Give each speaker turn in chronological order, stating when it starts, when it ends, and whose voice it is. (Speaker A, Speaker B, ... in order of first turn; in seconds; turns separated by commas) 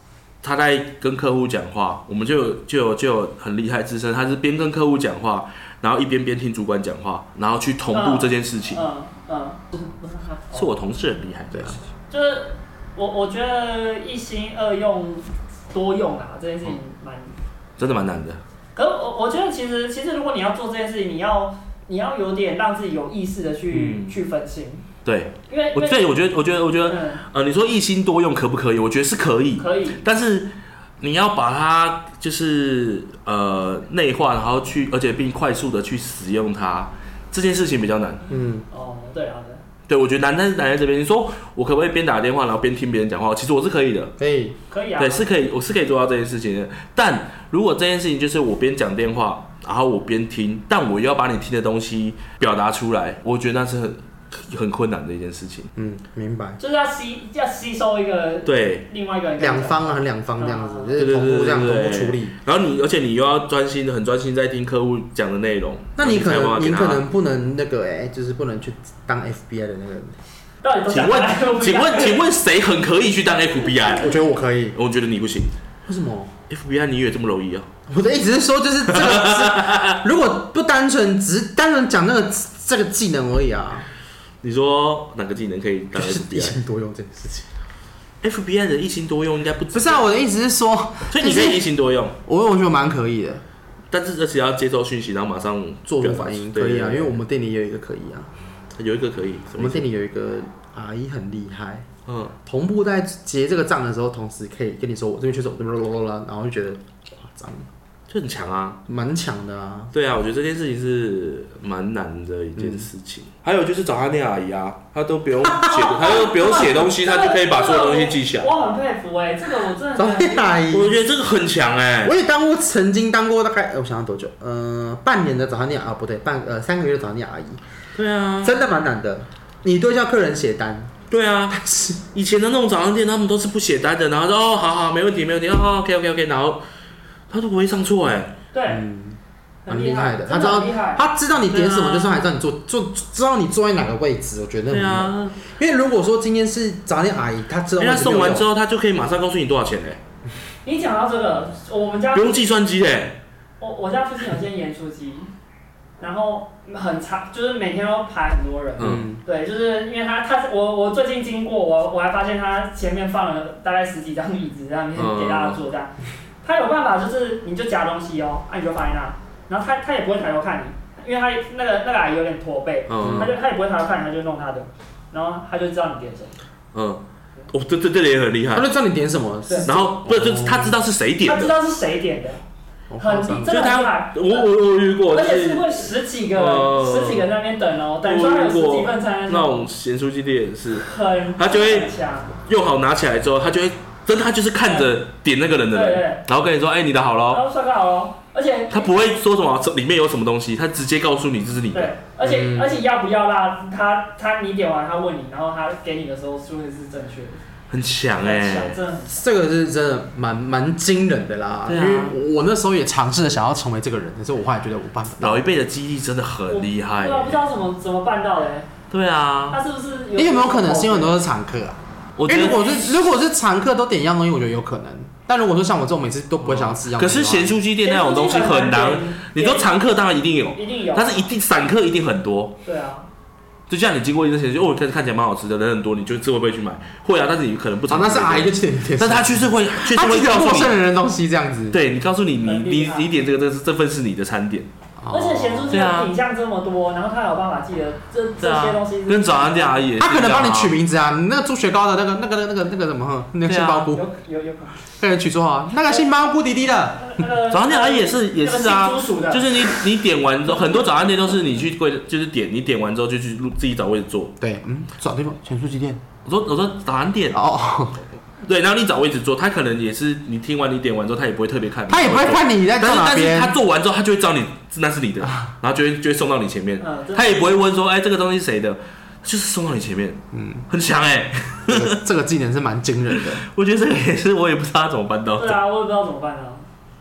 Speaker A: 0.4-8.8, Speaker B: 7.9-10.7, Speaker A: 10.5-11.8, Speaker C: 11.5-11.8, Speaker B: 12.1-17.4, Speaker A: 17.8-18.4, Speaker B: 18.8-24.9, Speaker A: 23.7-24.2, Speaker A: 25.1-38.2, Speaker B: 25.5-26.1, Speaker B: 26.9-27.2, Speaker B: 29.6-30.0, Speaker C: 38.3-38.7, Speaker B: 38.7-39.6, Speaker A: 39.9-44.1, Speaker C: 44.2-44.6, Speaker B: 44.7-45.3, Speaker A: 45.0-55.7, Speaker C: 55.8-56.6, Speaker B: 56.6-60.9, Speaker A: 58.5-58.9, Speaker C: 59.4-62.4, Speaker A: 61.0-67.0, Speaker C: 66.0-70.2, Speaker B: 70.6-72.2, Speaker A: 70.9-74.2, Speaker C: 74.0-74.8, Speaker A: 74.8-75.5, Speaker C: 75.9-76.3, Speaker A: 76.5-77.7, Speaker C: 77.9-83.9, Speaker A: 78.9-80.0, Speaker A: 84.4-86.6, Speaker C: 85.9-87.5, Speaker A: 88.2-90.1, Speaker C: 89.7-91.7, Speaker A: 91.1-92.2, Speaker C: 92.3-93.4, Speaker A: 93.9-97.2, Speaker C: 95.9-98.3, Speaker A: 98.8-99.9, Speaker C: 99.6-101.9, Speaker A: 102.1-102.3, Speaker C: 102.5-107.7, Speaker A: 108.1-108.8, Speaker C: 108.9-109.9, Speaker A: 109.9-118.5, Speaker C: 112.6-112.9, Speaker C: 115.5-116.0, Speaker B: 115.7-120.6, Speaker C: 120.0-121.0, Speaker A: 120.7-122.2, Speaker C: 122.0-127.6, Speaker A: 128.0-128.6, Speaker C: 128.4-130.9, Speaker A: 131.1-136.6, Speaker C: 131.5-132.0, Speaker A: 137.3-138.3, Speaker B: 138.5-138.8, Speaker C: 138.7-148.5, Speaker B: 139.7-141.0, Speaker A: 141.5-142.2, Speaker A: 144.7-145.4, Speaker A: 147.8-150.0, Speaker B: 150.7-152.5, Speaker A: 152.1-153.2, Speaker B: 153.6-155.3, Speaker B: 156.0-165.9, Speaker A: 158.8-159.1, Speaker C: 158.8-159.2, Speaker A: 165.0-165.6, Speaker B: 166.4-176.4, Speaker A: 172.9-173.3, Speaker C: 173.0-173.3, Speaker A: 176.7-178.7, Speaker C: 178.5-180.8, Speaker A: 179.7-181.6, Speaker B: 181.2-182.4, Speaker C: 182.9-183.6, Speaker B: 183.0-184.5, Speaker A: 183.5-185.8, Speaker B: 185.1-189.7, Speaker A: 186.3-187.3, Speaker A: 188.0-191.9, Speaker B: 190.7-192.4, Speaker A: 192.4-197.4, Speaker B: 194.6-194.9, Speaker B: 195.7-196.2, Speaker B: 197.3-199.1, Speaker A: 198.7-201.9, Speaker B: 201.7-207.4, Speaker C: 202.2-202.8, Speaker A: 207.7-208.8, Speaker B: 208.2-209.2, Speaker C: 209.1-215.5, Speaker A: 211.7-212.2, Speaker A: 215.2-217.4, Speaker B: 216.5-218.7, Speaker A: 218.9-219.6, Speaker B: 219.5-221.2, Speaker C: 220.2-227.6, Speaker A: 222.2-222.8, Speaker B: 222.3-222.9, Speaker A: 226.4-232.6, Speaker B: 227.8-229.7, Speaker B: 230.6-231.3, Speaker B: 232.6-233.1, Speaker A: 233.7-240.8, Speaker C: 237.9-241.8, Speaker A: 241.7-244.7, Speaker B: 242.4-243.1, Speaker C: 245.0-245.8, Speaker B: 245.1-249.9, Speaker A: 245.7-246.1, Speaker A: 248.4-250.8, Speaker C: 250.0-254.0, Speaker A: 253.4-253.9, Speaker B: 253.9-254.8, Speaker C: 255.0-257.2, Speaker B: 257.0-259.8, Speaker A: 257.5-264.4, Speaker C: 264.4-266.0, Speaker A: 266.2-267.4, Speaker C: 267.3-268.0, Speaker A: 268.4-282.0, Speaker C: 271.9-273.6, Speaker B: 276.8-277.4, Speaker C: 280.3-280.7, Speaker C: 281.7-283.5, Speaker A: 283.2-285.6, Speaker B: 285.4-286.7